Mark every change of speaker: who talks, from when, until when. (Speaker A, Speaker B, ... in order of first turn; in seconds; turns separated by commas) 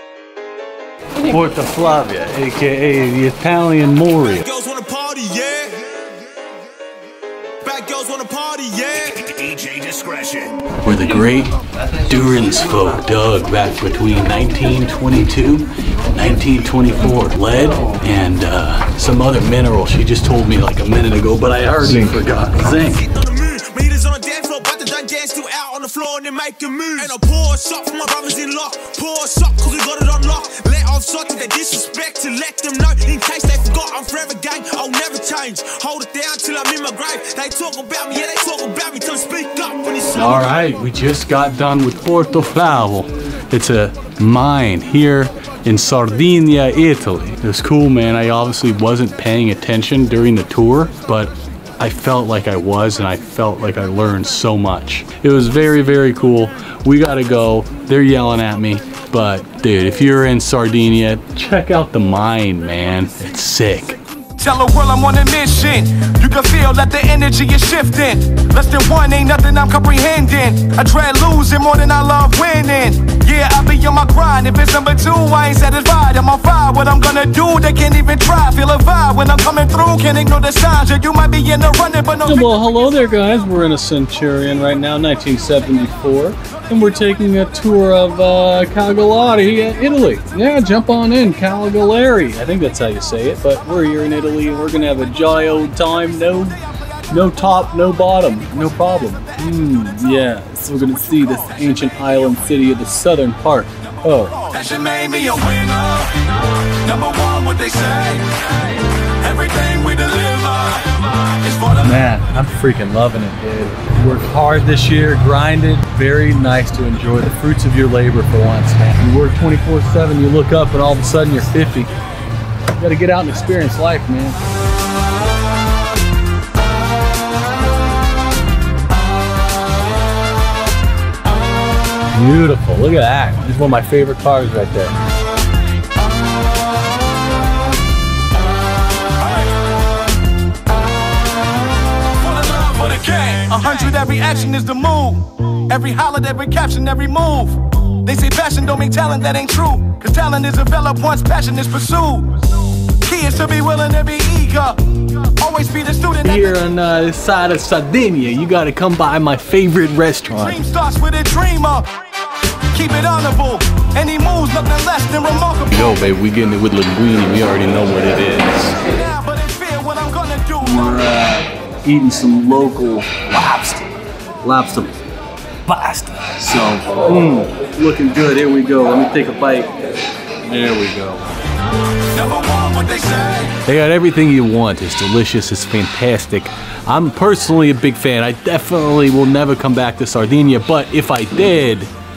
Speaker A: 1.2-4.5, Speaker B: 4.2-6.1, Speaker B: 7.6-10.5, Speaker A: 10.8-11.5, Speaker A: 12.1-23.1, Speaker B: 22.9-40.7, Speaker A: 40.1-64.0, Speaker C: 64.4-82.5, Speaker A: 82.2-96.6, Speaker A: 97.1-104.4, Speaker C: 104.2-112.1, Speaker A: 111.8-121.9, Speaker A: 122.7-124.4, Speaker A: 132.1-134.9, Speaker C: 139.2-139.7, Speaker C: 142.2-156.5, Speaker A: 156.2-160.6, Speaker C: 160.4-162.1, Speaker C: 162.7-165.7, Speaker A: 165.7-168.8, Speaker C: 168.8-171.1, Speaker A: 170.6-173.9, Speaker A: 174.4-174.9, Speaker A: 175.7-179.7, Speaker A: 180.4-181.3, Speaker C: 182.1-183.6, Speaker A: 183.6-191.9